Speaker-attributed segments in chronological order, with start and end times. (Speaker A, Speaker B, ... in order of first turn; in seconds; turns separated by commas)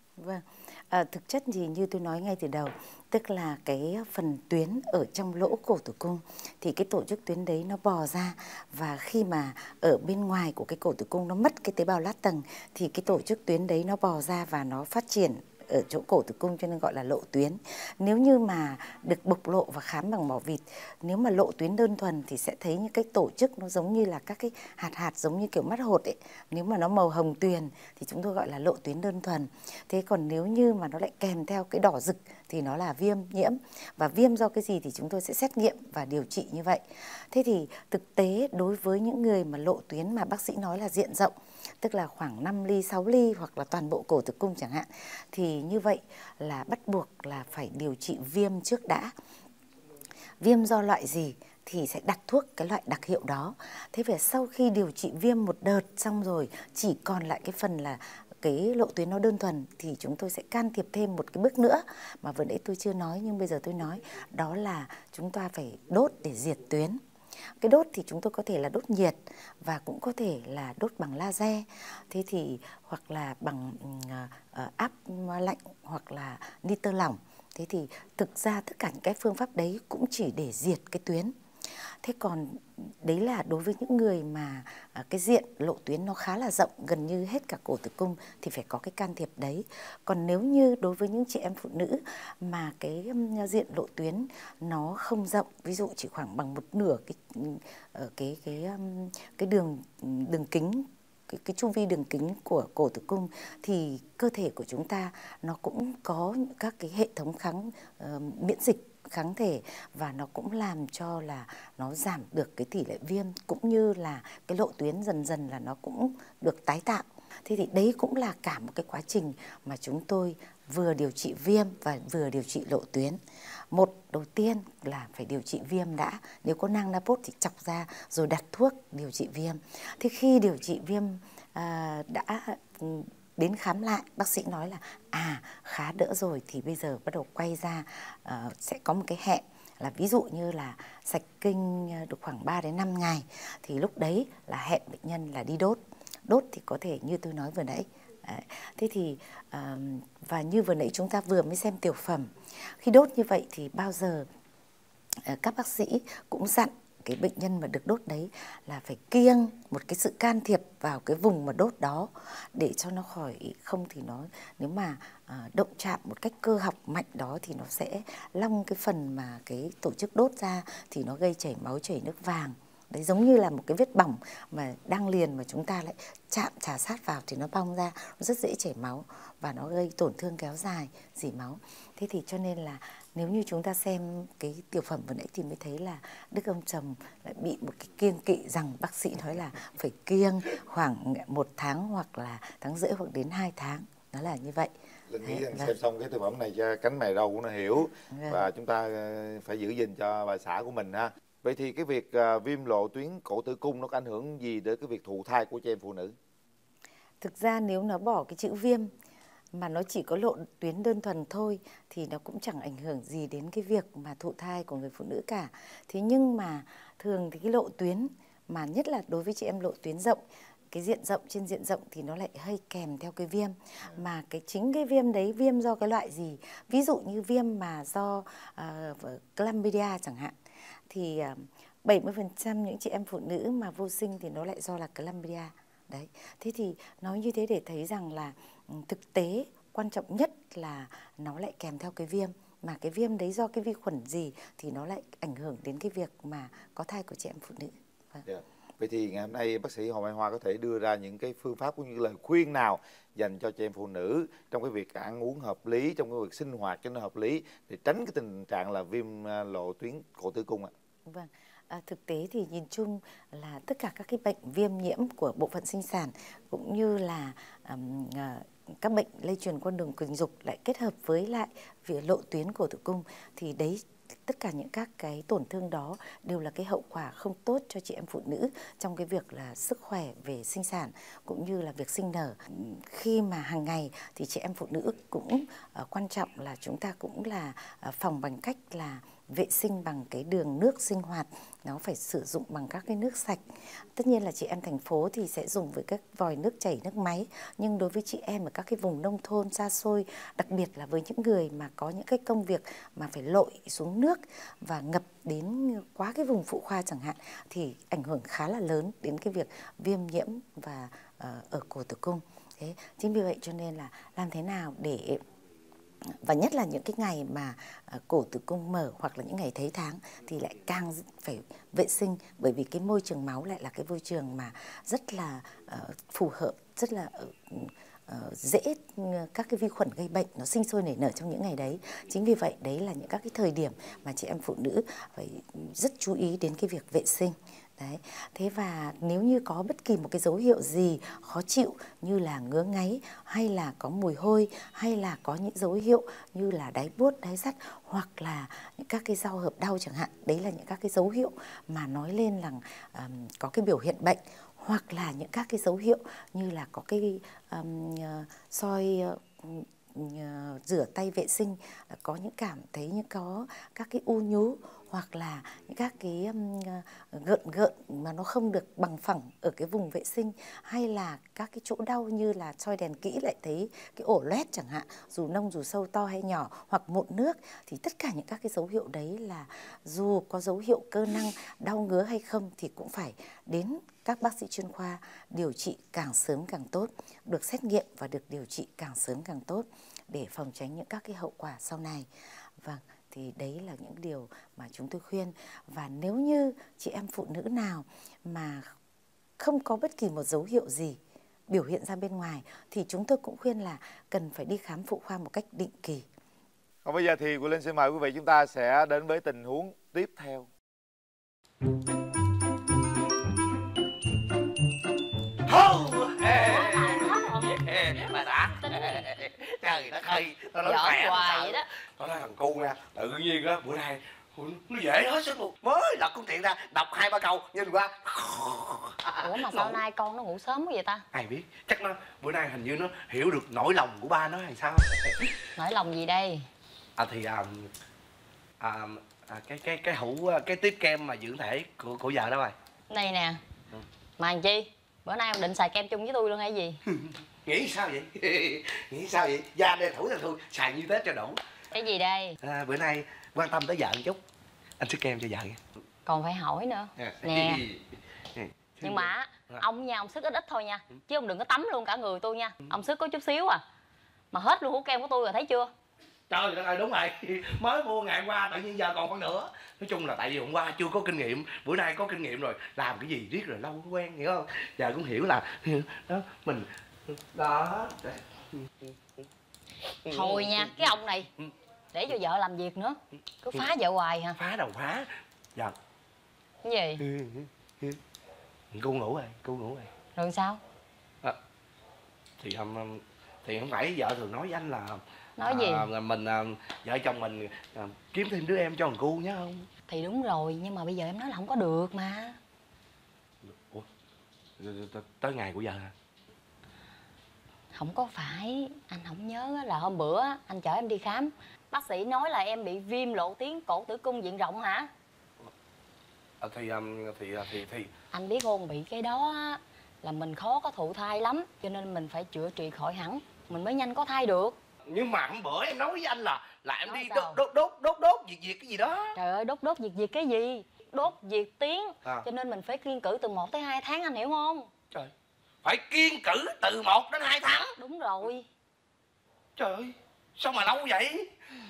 Speaker A: 0.2-49.1, Speaker A: 50.4-67.0, Speaker A: 67.6-81.3, Speaker A: 82.0-123.2, Speaker A: 123.7-154.3, Speaker A: 155.2-194.7, Speaker B: 195.1-206.2, Speaker A: 195.2-195.7, Speaker A: 198.1-198.5, Speaker A: 207.2-208.9, Speaker A: 209.5-230.3, Speaker A: 230.9-248.2, Speaker B: 248.2-260.7, Speaker A: 261.1-315.2, Speaker A: 316.1-392.1, Speaker A: 392.6-398.7, Speaker A: 399.4-406.1, Speaker B: 406.9-410.5, Speaker C: 415.5-429.8, Speaker D: 416.3-417.5, Speaker D: 418.5-419.1, Speaker D: 420.6-421.7, Speaker D: 429.2-431.1, Speaker C: 431.1-435.3, Speaker D: 435.6-436.5, Speaker C: 437.0-437.7, Speaker C: 438.6-442.6, Speaker D: 442.9-443.4, Speaker D: 444.2-446.8, Speaker C: 446.9-451.4, Speaker D: 451.7-452.4, Speaker C: 452.4-454.2, Speaker C: 454.8-455.6, Speaker D: 456.1-457.6, Speaker C: 457.0-459.6, Speaker D: 458.8-463.6, Speaker D: 464.3-465.7, Speaker C: 466.3-479.2, Speaker C: 480.1-481.5, Speaker D: 480.1-481.3, Speaker D: 481.9-484.4, Speaker C: 484.4-485.8, Speaker D: 486.6-487.0, Speaker C: 487.0-488.0, Speaker C: 488.7-489.9, Speaker D: 490.1-490.6, Speaker C: 492.4-499.7, Speaker D: 495.4-495.9, Speaker D: 499.9-502.4, Speaker C: 503.5-503.9, Speaker C: 504.6-505.9, Speaker D: 507.8-514.9, Speaker C: 516.4-517.9, Speaker D: 518.1-524.6, Speaker C: 524.9-529.2, Speaker D: 526.9-527.4, Speaker D: 529.1-534.7, Speaker C: 535.6-537.8, Speaker D: 537.8-538.5, Speaker C: 539.6-541.3